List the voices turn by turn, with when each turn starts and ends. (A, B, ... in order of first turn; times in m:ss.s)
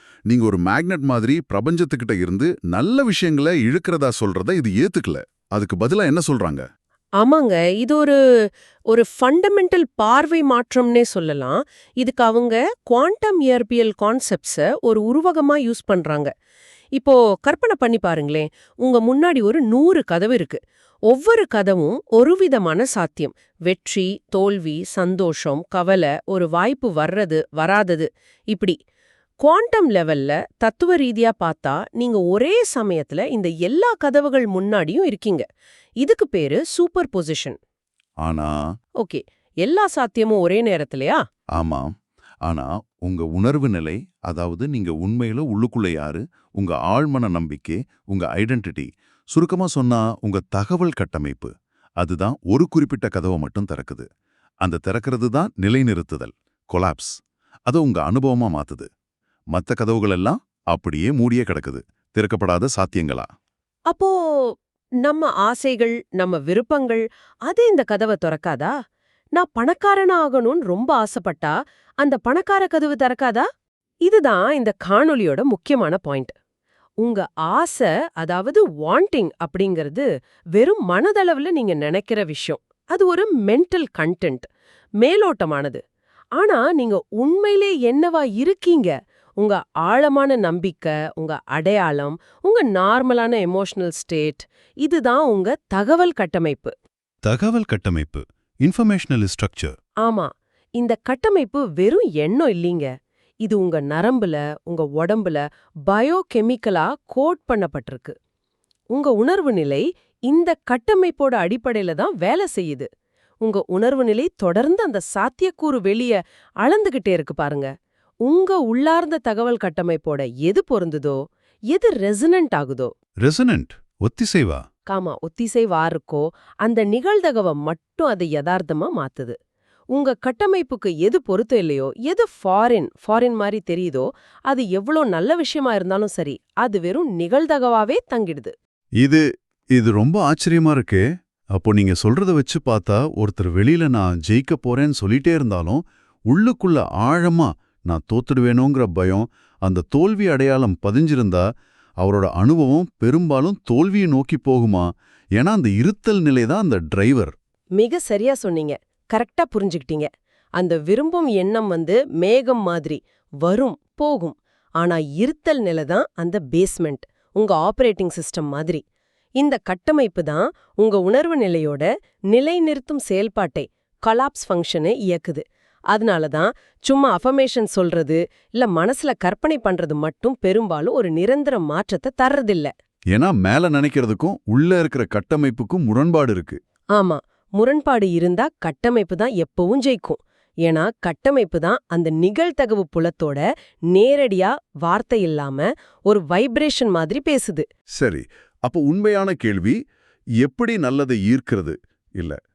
0:00.3-0:06.7 A
0:07.2-0:08.2 B
0:08.9-0:16.3 B
0:17.0-0:28.8 B
0:29.4-0:35.5 B
0:36.0-0:37.6 B
0:38.2-0:38.6 A
0:39.0-0:41.2 B
0:41.6-0:41.9 A
0:42.5-0:54.1 A
0:54.6-0:58.9 A
0:59.5-1:03.3 A
1:03.9-1:08.7 B
1:09.4-1:13.5 B
1:14.1-1:16.3 B
1:17.0-1:24.5 B
1:25.0-1:25.8 B
1:26.4-1:36.7 B
1:37.2-1:39.8 A
1:40.0-1:42.9 B
1:43.4-1:48.2 B
1:48.9-1:52.9 B
1:53.4-1:57.7 B
1:58.3-2:01.2 B
2:01.7-2:02.9 B
2:03.2-2:04.6 A
2:04.9-2:09.4 B
2:10.0-2:18.6 B
2:19.0-2:19.2 A
2:19.8-2:21.0 A
2:21.6-2:31.4 A
2:32.0-2:37.4 A
2:37.8-2:48.8 B
2:49.4-3:02.7 B
3:03.1-3:06.6 A
3:07.0-3:13.4 B
3:13.9-3:17.7 B
3:18.0-3:19.8 A
3:20.4-3:22.4 A